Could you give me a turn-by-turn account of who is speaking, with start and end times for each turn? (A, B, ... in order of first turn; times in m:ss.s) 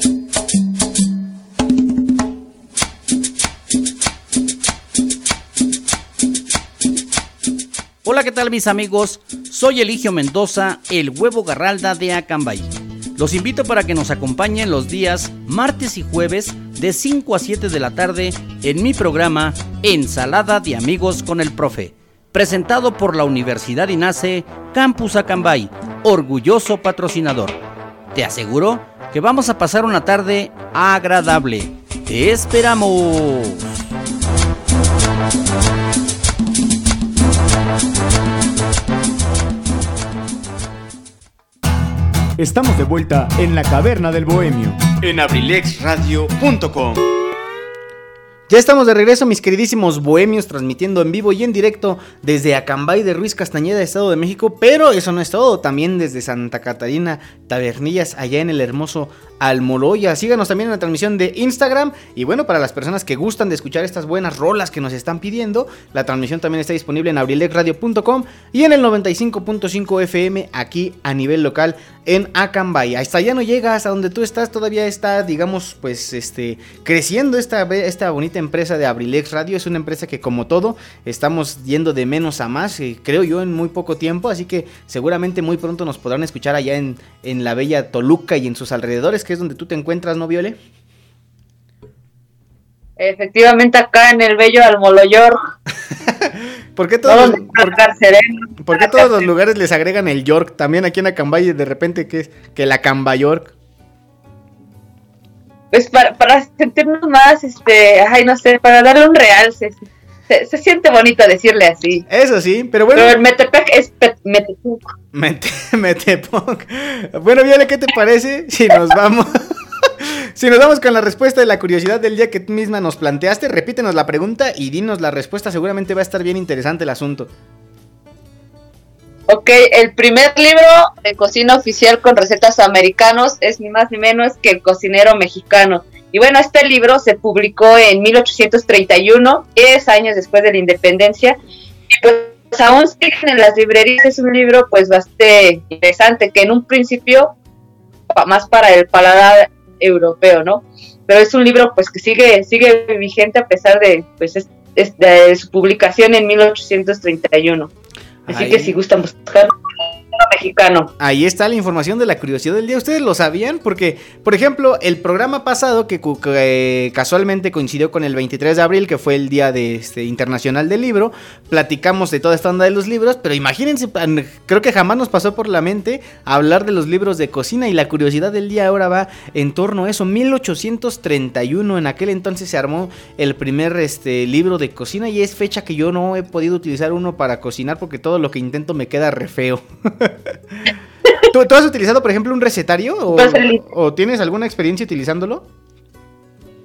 0:08.0-0:27.6 A
0:28.2-0:33.6 A
0:42.4-0:44.9 B
0:44.9-0:47.0 C
0:48.5-1:30.6 D
1:33.0-1:35.4 E
1:36.1-1:37.8 D
1:37.1-1:39.3 E
1:38.6-1:43.5 D
1:45.7-1:52.0 E
1:52.1-1:53.2 D
1:53.0-1:54.9 E
1:55.1-1:59.3 D
1:59.9-2:07.3 D
2:09.3-2:21.4 E
2:21.9-2:27.3 E
2:28.1-2:37.7 E
2:38.3-2:38.8 D
2:38.3-2:39.5 E
2:40.1-2:40.9 E
2:41.0-3:10.2 D
3:11.3-3:15.5 D
3:13.1-3:13.6 E